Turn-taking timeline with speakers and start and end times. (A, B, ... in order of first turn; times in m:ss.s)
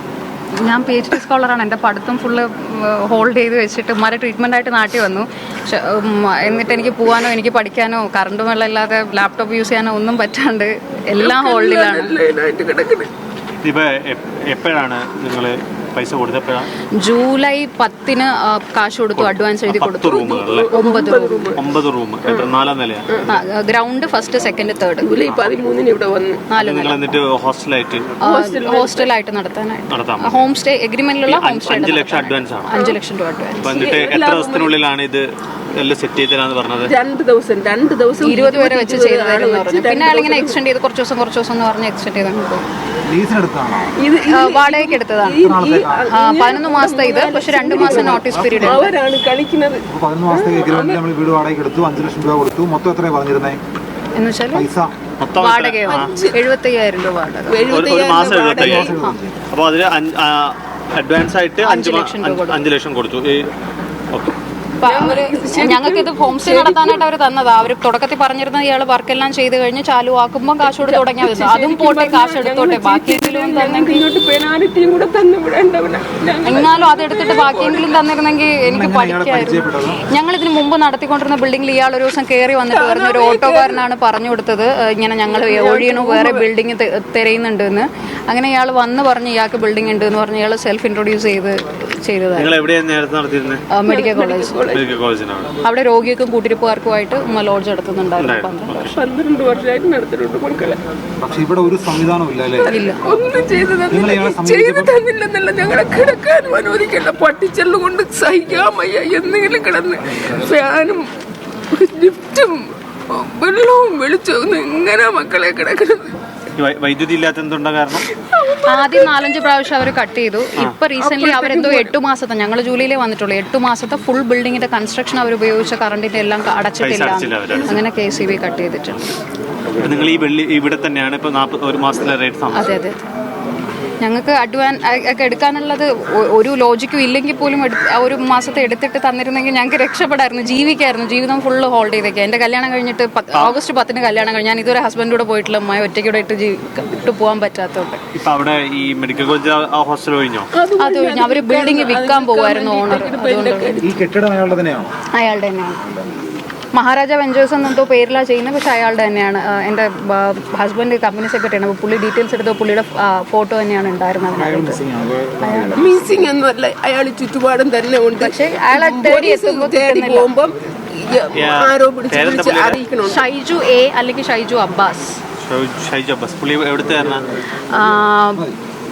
0:00.6-0:12.1 A
0:11.2-0:13.1 B
0:13.6-0:16.7 C
0:17.0-0:21.5 A
0:19.2-0:20.7 C
0:20.1-0:21.6 B
0:21.6-0:23.0 C
0:22.2-0:22.5 B
0:23.3-0:25.1 A
0:25.0-0:26.4 B
0:25.3-0:25.6 C
0:26.5-0:27.0 A
0:26.5-0:28.1 C
0:28.2-0:29.1 B
0:28.2-0:33.6 A
0:29.9-0:30.4 C
0:31.3-0:32.7 C
0:32.7-0:33.0 B
0:33.6-0:35.2 C
0:33.6-0:34.7 B
0:35.8-0:36.9 C
0:36.8-0:40.6 B
0:38.2-0:42.6 A
0:43.1-0:44.0 D
0:44.0-0:51.0 B
0:44.3-0:45.4 A
0:45.4-0:46.0 D
0:46.1-0:48.9 A
0:47.8-0:48.8 D
0:49.9-0:53.6 D
0:54.1-0:54.7 A
0:54.5-0:54.9 D
0:55.2-0:56.2 C
0:55.4-0:57.6 A
0:55.8-0:56.4 B
0:57.5-0:59.0 B
0:57.7-0:58.9 C
0:58.4-0:59.4 D
0:59.5-1:03.4 C
1:01.6-1:02.6 A
1:04.8-1:14.0 A
1:04.8-1:07.0 B
1:10.6-1:18.0 B
1:16.4-1:32.6 A
1:18.6-1:20.1 D
1:22.7-1:23.8 B
1:25.3-1:26.5 B
1:32.4-1:33.7 C
1:33.7-1:34.8 A
1:33.8-1:34.9 B
1:34.7-1:35.5 C
1:35.6-1:38.8 A
1:38.2-1:38.9 C
1:38.9-1:40.8 B
1:41.2-1:42.7 D
1:42.6-1:51.1 B
1:42.7-1:43.0 A
1:43.9-1:44.9 D
1:51.7-1:56.2 B
1:56.6-1:58.1 C
1:58.2-1:59.5 B
1:58.6-2:09.0 A
2:01.0-2:02.0 B
2:06.8-2:07.8 C
2:09.8-2:12.7 C
2:12.5-2:13.0 A
2:14.0-2:28.0 A
2:28.1-2:30.5 C
2:30.5-2:34.0 B
2:30.8-2:33.8 A
2:33.8-2:34.9 D
2:35.1-2:35.9 A
2:36.7-2:44.8 A
2:44.3-2:46.2 D
2:45.4-2:45.8 A
2:45.8-2:53.2 B
2:48.2-2:50.3 A
2:51.3-2:52.8 C
2:53.0-2:55.2 A
2:55.4-2:57.2 C
2:57.7-2:58.4 A